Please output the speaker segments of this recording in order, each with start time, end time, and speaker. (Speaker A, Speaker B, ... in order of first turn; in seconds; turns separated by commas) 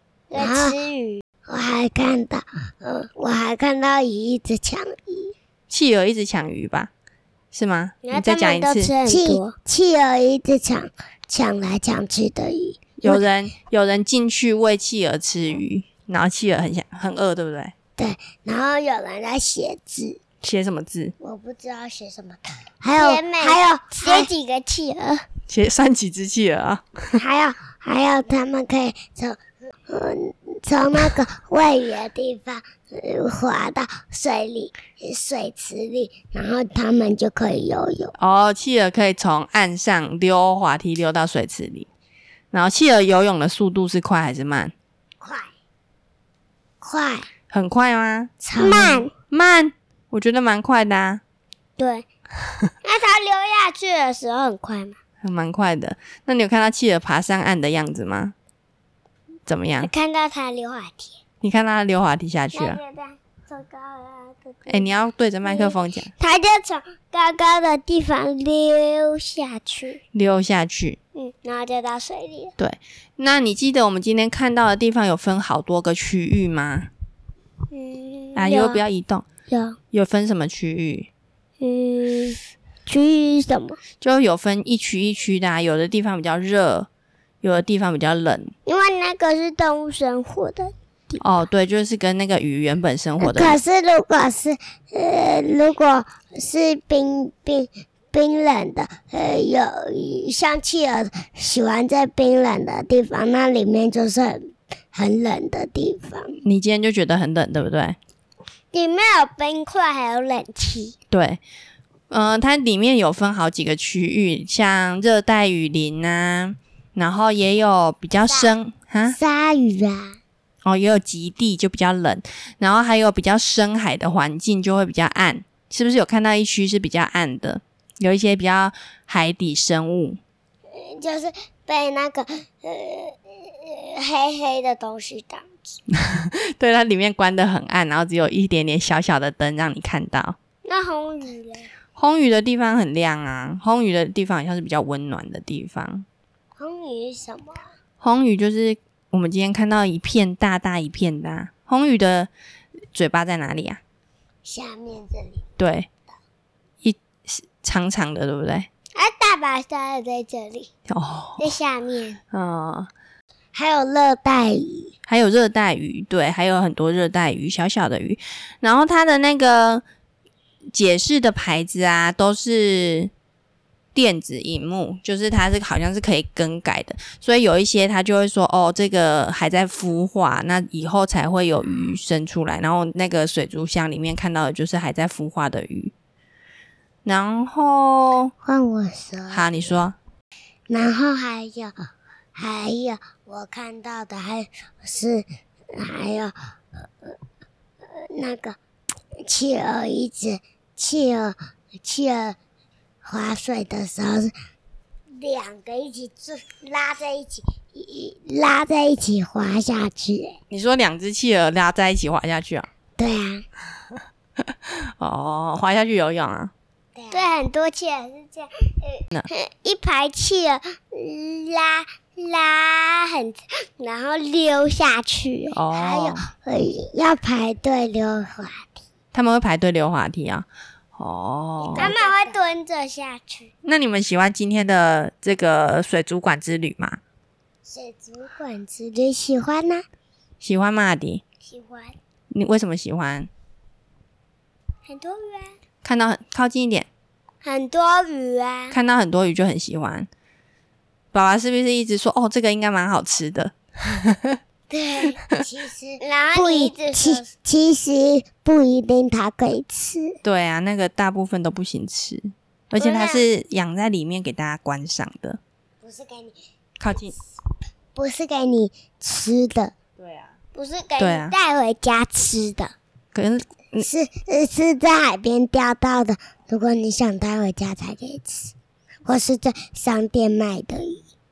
Speaker A: 0.3-1.2, Speaker B: 0.3-0.7, Speaker B: 1.5-5.3, Speaker C: 5.7-6.9, Speaker C: 7.5-8.9, Speaker A: 8.0-9.6, Speaker B: 9.0-13.2, Speaker C: 13.0-17.7, Speaker B: 18.0-20.2, Speaker C: 20.4-21.1, Speaker B: 21.2-24.3, Speaker A: 22.9-25.2, Speaker C: 25.5-27.2, Speaker B: 27.1-38.1, Speaker C: 38.2-41.9, Speaker C: 42.5-44.7, Speaker B: 45.2-45.5, Speaker B: 46.8-47.3, Speaker C: 47.5-51.2, Speaker B: 48.4-49.1, Speaker A: 48.7-49.1, Speaker A: 51.8-52.0, Speaker A: 52.8-55.0, Speaker C: 55.2-58.3, Speaker C: 59.5-59.9, Speaker A: 59.8-61.2, Speaker C: 61.4-62.8, Speaker A: 62.5-64.9, Speaker C: 64.7-66.1, Speaker A: 65.4-70.0, Speaker C: 70.1-71.0, Speaker A: 71.1-72.5, Speaker C: 72.6-76.9, Speaker A: 77.7-78.8, Speaker C: 78.3-79.2, Speaker A: 79.5-79.8, Speaker C: 79.9-81.1, Speaker A: 81.6-83.8, Speaker C: 84.0-86.9, Speaker C: 87.4-88.5, Speaker A: 88.7-90.7, Speaker C: 91.2-93.6, Speaker B: 93.2-106.4, Speaker C: 106.4-108.0, Speaker A: 108.7-111.0, Speaker C: 111.1-111.4, Speaker C: 112.1-119.2, Speaker A: 118.2-118.5, Speaker B: 119.1-120.2, Speaker C: 120.6-130.2, Speaker B: 130.9-133.1, Speaker B: 134.0-135.4, Speaker C: 135.9-140.3, Speaker A: 140.6-141.7, Speaker C: 141.9-146.1, Speaker A: 146.6-147.4, Speaker B: 147.2-147.6, Speaker C: 148.0-152.3, Speaker C: 152.9-153.8, Speaker B: 154.4-155.4, Speaker C: 155.6-155.9, Speaker C: 156.8-158.7, Speaker A: 158.9-160.7, Speaker C: 160.9-161.5, Speaker A: 161.4-162.2, Speaker C: 162.3-162.9, Speaker B: 163.5-164.9, Speaker C: 165.1-169.8, Speaker C: 170.7-173.1, Speaker C: 173.9-185.9, Speaker C: 187.0-188.3, Speaker B: 188.4-189.5, Speaker C: 189.3-190.0, Speaker B: 190.7-191.7, Speaker B: 192.3-196.3, Speaker B: 198.0-198.6, Speaker B: 199.2-202.4, Speaker B: 203.0-204.3, Speaker B: 205.1-210.4, Speaker C: 210.5-212.7, Speaker B: 213.0-213.4, Speaker C: 214.5-216.5, Speaker B: 216.9-217.3, Speaker A: 217.1-225.6, Speaker C: 225.5-226.3, Speaker B: 225.7-228.8, Speaker C: 229.1-231.9, Speaker A: 231.6-233.5, Speaker B: 231.8-232.4, Speaker C: 233.6-237.0, Speaker B: 237.6-239.8, Speaker C: 240.4-241.2, Speaker A: 241.4-241.9, Speaker C: 242.3-243.3, Speaker A: 244.8-245.6, Speaker C: 245.8-246.9, Speaker A: 247.4-248.8, Speaker C: 248.7-250.1, Speaker C: 251.1-254.4, Speaker B: 254.7-260.1, Speaker A: 256.0-257.3, Speaker C: 260.2-265.4, Speaker A: 262.8-263.3, Speaker B: 265.8-266.4, Speaker C: 266.8-267.1, Speaker B: 267.9-269.7, Speaker C: 270.0-270.3, Speaker A: 270.5-272.7, Speaker C: 271.0-271.3, Speaker C: 273.1-273.9, Speaker B: 273.8-278.5, Speaker B: 279.1-281.0